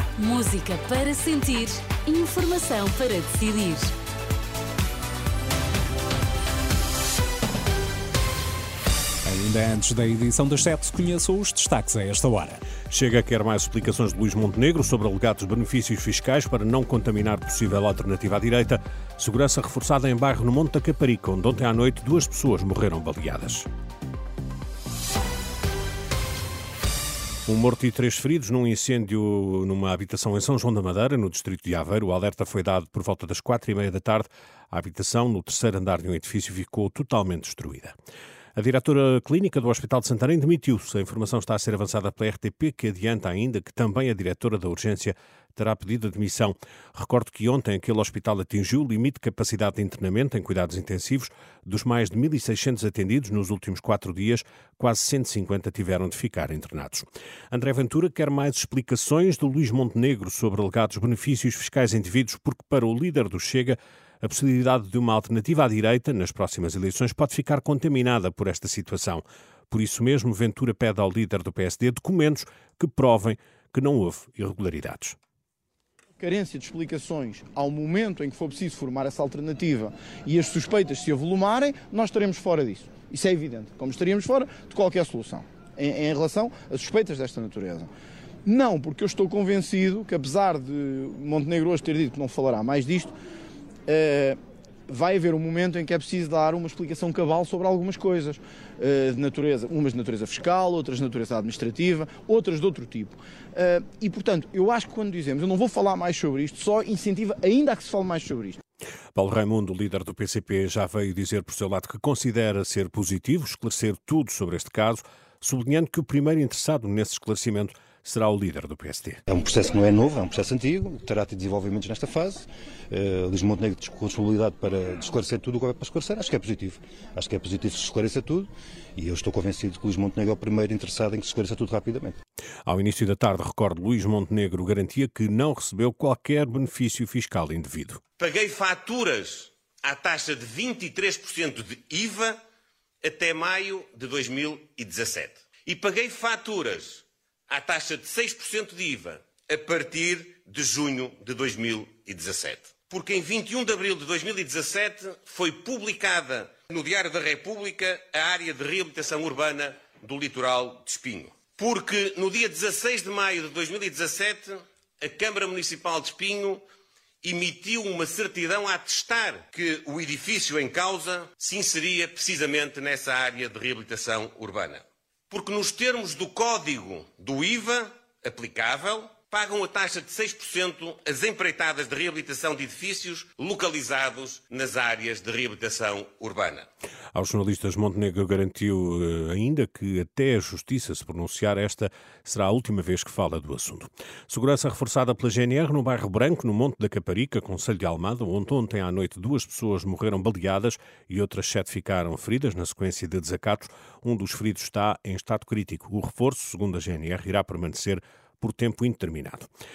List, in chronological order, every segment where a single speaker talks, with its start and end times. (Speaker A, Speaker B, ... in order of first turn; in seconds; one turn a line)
Speaker A: 0.2-3.9
Speaker B: 9.2-12.6
Speaker C: 12.8-23.7
Speaker C: 27.5-38.0
Speaker C: 38.6-75.2
Speaker D: 76.2-87.9
Speaker D: 88.5-93.1
Speaker D: 93.9-94.4
Speaker D: 94.9-108.6
Speaker C: 109.2-119.2
Speaker E: 119.3-132.2
Speaker C: 132.7-138.0
Speaker F: 138.2-142.4
Speaker F: 143.0-166.6
Speaker F: 167.2-186.7
Speaker C: 187.1-209.5